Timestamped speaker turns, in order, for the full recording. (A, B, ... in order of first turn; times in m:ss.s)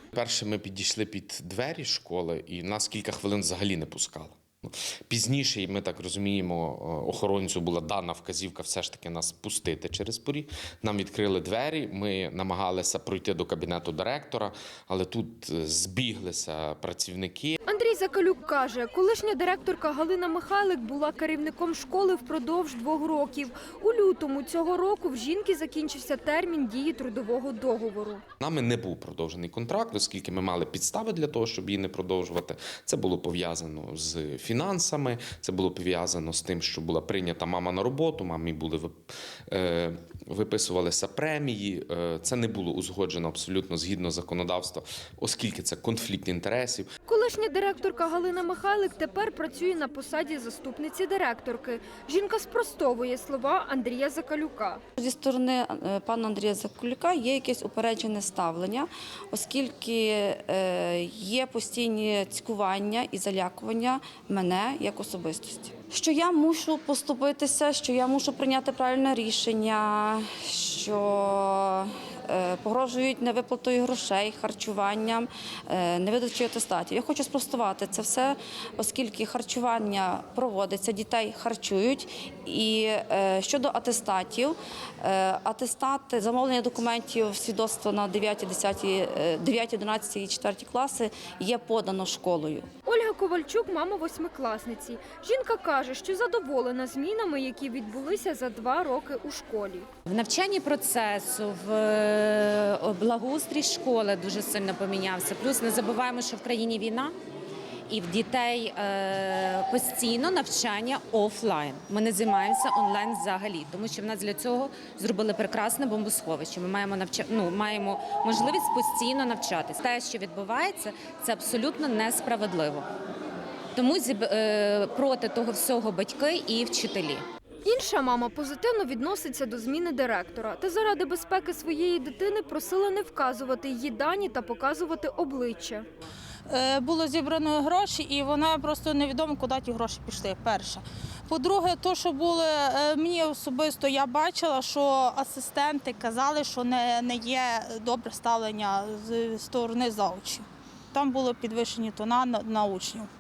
0:00.1-0:17.6 A
0:17.6-0:28.2 B
0:28.4-0:39.0 A
0:39.5-0:46.9 A
0:47.1-0:54.8 B
0:55.0-1:32.7 C
1:32.9-1:39.9 B
1:40.1-1:47.2 D
1:47.9-2:02.9 D
2:03.8-2:07.2 D
2:07.6-2:15.9 B
2:16.5-2:30.4 E
2:31.0-2:33.1 E